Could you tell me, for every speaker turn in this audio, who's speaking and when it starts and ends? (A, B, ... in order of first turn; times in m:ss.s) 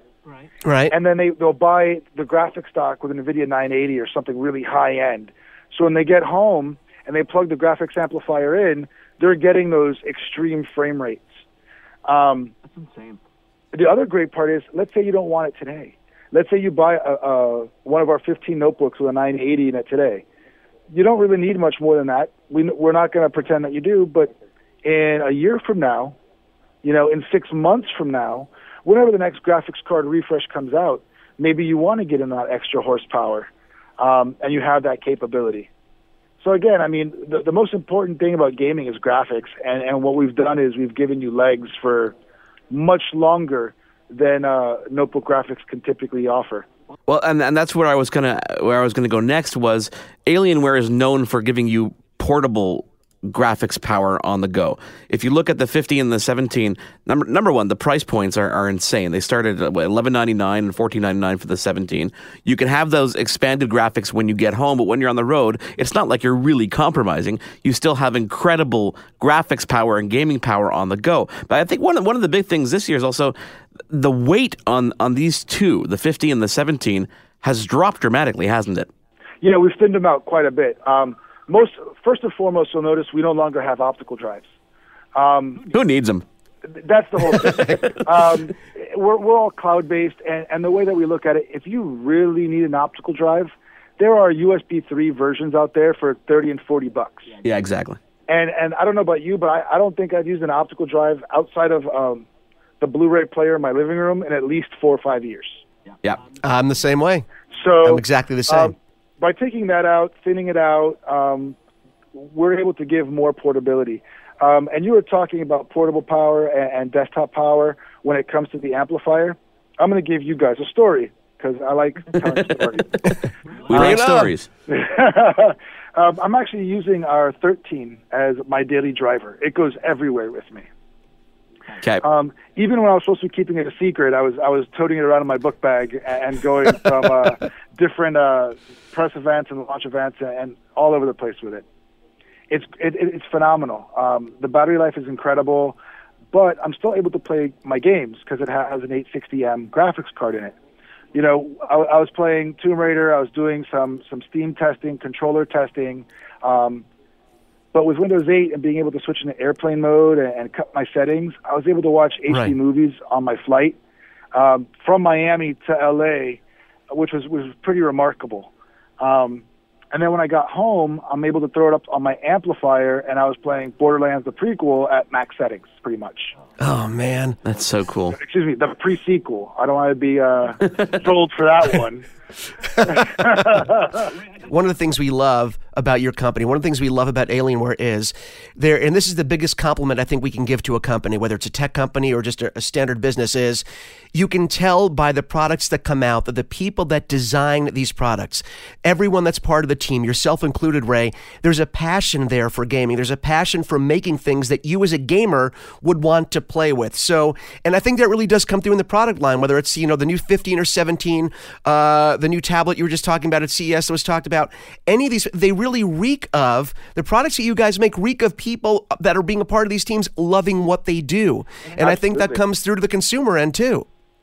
0:00.6-0:00.9 A
0:00.9-0:11.4 B
0:12.0-0:12.5 B
0:13.7-0:20.2 B
0:20.9-0:24.3 B
0:24.8-0:26.2 B
0:26.8-0:35.7 B
0:36.4-0:42.1 B
0:42.7-0:46.7 B
0:47.1-1:13.4 C
1:13.9-1:18.9 C
1:19.4-1:24.5 B
1:25.1-1:25.6 B
1:25.7-1:26.2 C
1:26.7-1:37.4 B
1:27.3-1:28.0 C
1:37.4-1:38.0 C
1:38.3-1:42.2 B
1:42.8-1:45.6 B
1:46.4-1:47.2 A
1:47.5-1:51.6 B
1:47.8-1:48.7 A
1:52.2-2:02.9 B
2:03.7-2:04.0 B
2:03.7-2:04.5 C
2:03.8-2:04.3 A
2:04.7-2:10.6 B
2:12.0-2:21.6 B
2:22.5-2:25.8 B
2:26.3-2:30.5 B
2:31.1-2:36.8 B
2:37.7-2:43.8 B
2:44.3-2:46.4 B
2:46.9-2:56.3 B
2:56.6-2:57.4 A
2:57.4-2:58.2 C
2:58.2-3:02.1 B
3:02.8-3:04.0 B
3:04.5-3:43.8 A
3:41.7-3:42.4 B